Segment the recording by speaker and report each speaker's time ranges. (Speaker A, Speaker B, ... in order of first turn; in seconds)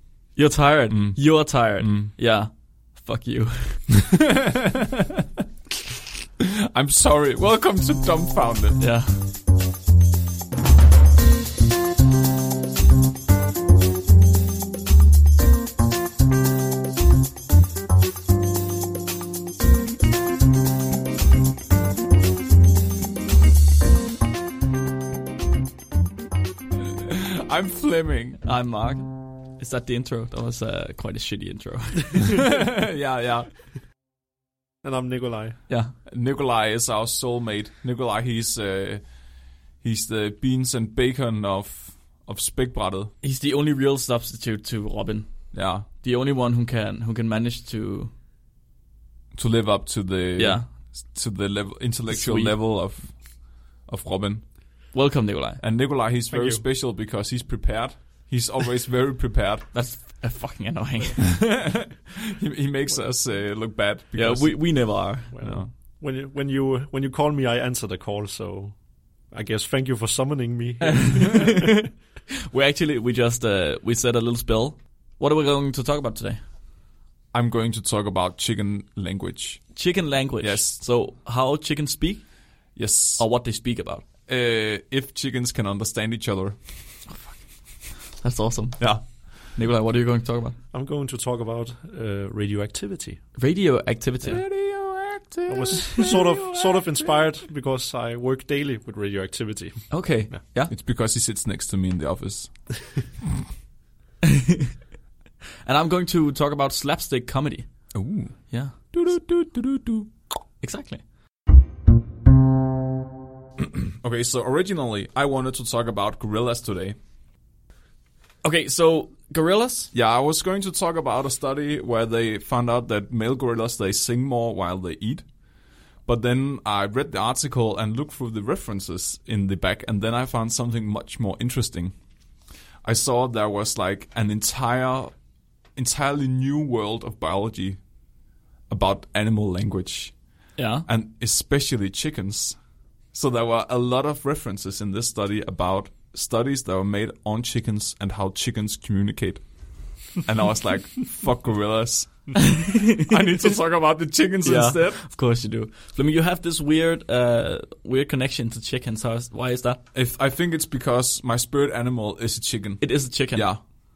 Speaker A: 0.4-4.1, 8.8-9.2, 28.4-32.6, 43.2-48.1, 50.4-50.7, 52.1-52.6, 54.9-55.6, 59.7-61.5, 64.2-65.5, 70.8-76.4, 79.8-82.2, 83.2-84.0, 87.1-87.4, 88.1-90.6, 93.4-94.5, 99.9-100.7, 104.2-104.7, 105.7-107.9, 110.6-111.0, 118.4-119.9, 140.6-140.9, 152.7-153.1, 154.4-159.8, 162.8-163.5
Speaker B: 0.9-2.1, 4.2-5.0, 6.7-8.8, 27.0-28.4, 32.3-33.5, 36.1-39.0, 39.8-43.1, 45.5-45.9, 49.3-54.5, 55.6-59.7, 61.3-65.7, 77.3-79.7, 80.4-80.8, 82.8-83.2, 84.3-86.6, 88.8-89.0, 94.2-97.0, 100.7-102.5, 107.9-110.1, 113.7-117.0, 119.9-125.2, 126.1-131.9, 132.8-135.1, 135.8-137.8, 138.7-140.2, 140.9-142.6, 143.1-149.4, 150.2-155.0, 159.9-163.6
Speaker C: 34.8-35.6, 56.3-56.6, 65.3-68.8, 69.3-71.7, 90.7-93.2, 95.5-100.4